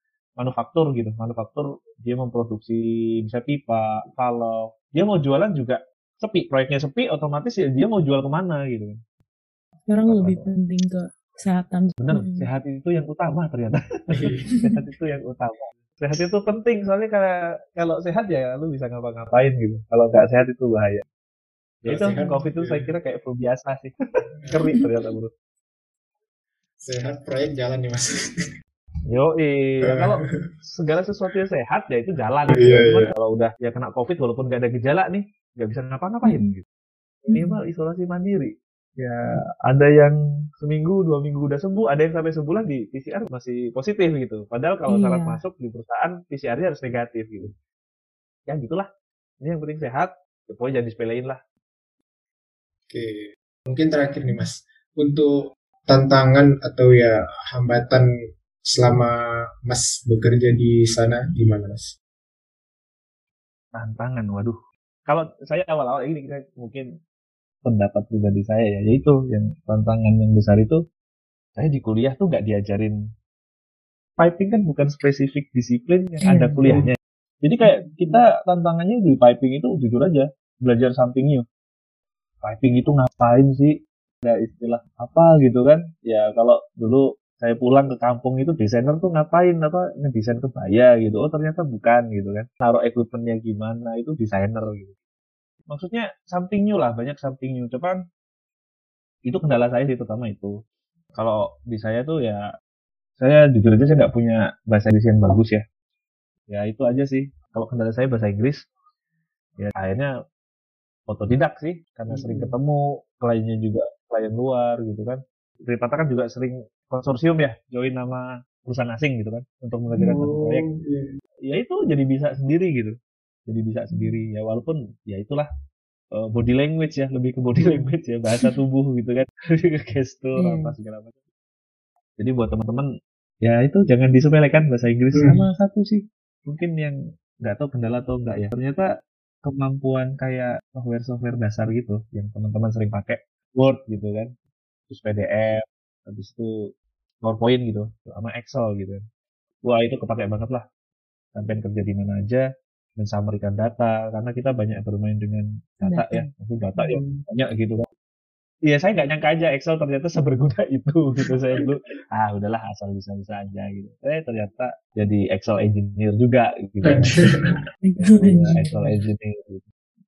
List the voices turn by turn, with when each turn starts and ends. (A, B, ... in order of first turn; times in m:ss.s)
0:00.4-0:09.0 A
0:09.9-0:12.5 B
0:10.0-0:10.5 A
0:12.0-0:21.0 A
0:14.1-0:14.5 C
0:14.5-0:14.8 B
0:21.8-0:23.9 A
0:21.8-0:22.9 C
0:24.4-0:24.7 C
0:24.5-0:25.3 A
0:26.8-0:28.3 C
0:29.1-0:36.6 A
0:29.8-0:30.3 C
0:32.5-0:33.1 C
0:36.2-0:36.5 B
0:37.3-0:37.6 B
0:37.3-0:47.5 A
0:44.9-0:45.4 B
0:48.5-0:48.9 A
0:49.4-0:51.4 A
0:52.9-0:58.0 C
0:58.7-1:01.9 C
1:03.7-1:04.5 A
1:05.1-1:06.8 A
1:07.6-1:10.8 A
1:11.6-1:13.0 A
1:14.2-1:21.4 A
1:16.2-1:16.8 B
1:22.4-1:34.9 A
1:35.7-1:38.0 A
1:39.2-1:40.5 A
1:41.2-1:42.4 A
1:43.2-1:45.6 A
1:46.5-1:48.6 A
1:49.6-1:50.1 A
1:51.1-2:00.7 A
1:52.1-1:52.5 C
2:00.0-2:01.1 C
2:01.4-2:02.9 A
2:03.5-2:05.5 A
2:03.9-2:04.2 B
2:06.1-2:11.2 A
2:10.4-2:10.7 B
2:12.2-2:12.9 A
2:13.4-2:18.8 A
2:15.1-2:15.4 C
2:19.4-2:24.3 A
2:24.9-2:26.5 A
2:27.2-2:29.0 A
2:29.6-2:30.6 A
2:31.3-2:32.4 A
2:33.0-2:37.9 A
2:35.8-2:36.3 B
2:36.9-2:37.2 C
2:38.6-2:47.2 A
2:46.8-2:47.6 C
2:47.8-2:49.0 B
2:48.0-2:49.6 A